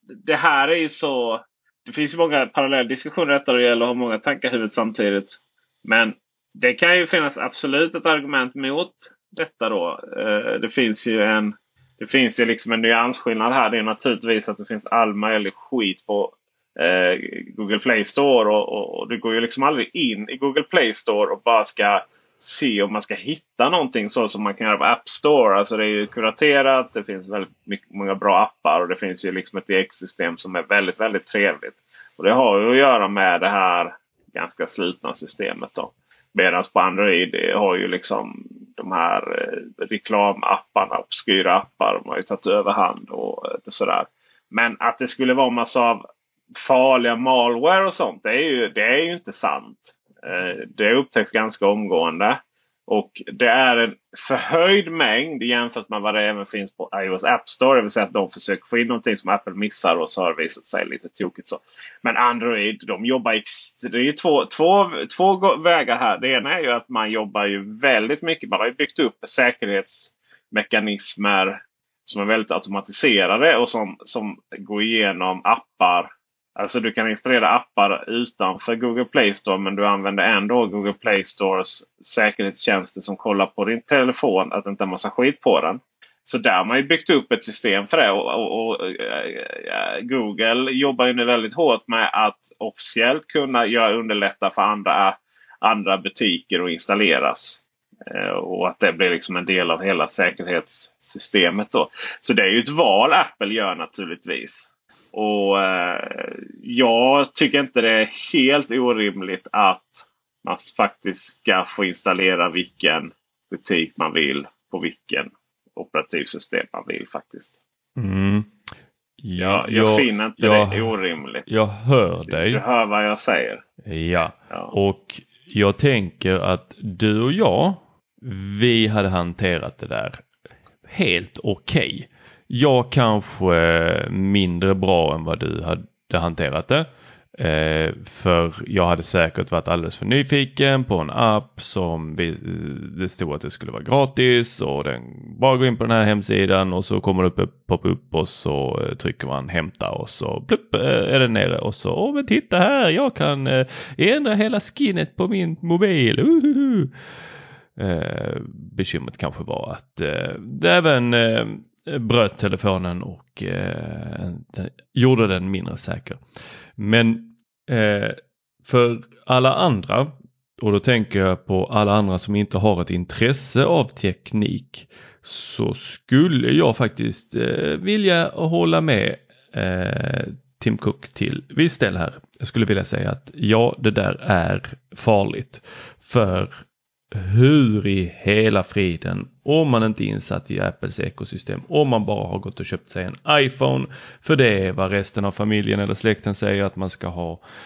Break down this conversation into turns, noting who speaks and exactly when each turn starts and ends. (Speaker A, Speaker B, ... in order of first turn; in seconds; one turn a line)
Speaker A: 0.2-46.0
Speaker A: 46.5-117.5
Speaker B: 118.0-118.5
Speaker B: 119.2-120.9
Speaker A: 119.4-121.6
Speaker B: 121.5-122.6
Speaker A: 122.3-123.6
Speaker B: 123.8-130.2
Speaker A: 124.5-124.7
Speaker B: 130.8-136.9
Speaker B: 137.4-156.9
Speaker B: 157.8-166.2
Speaker B: 166.8-186.6
Speaker B: 187.1-197.4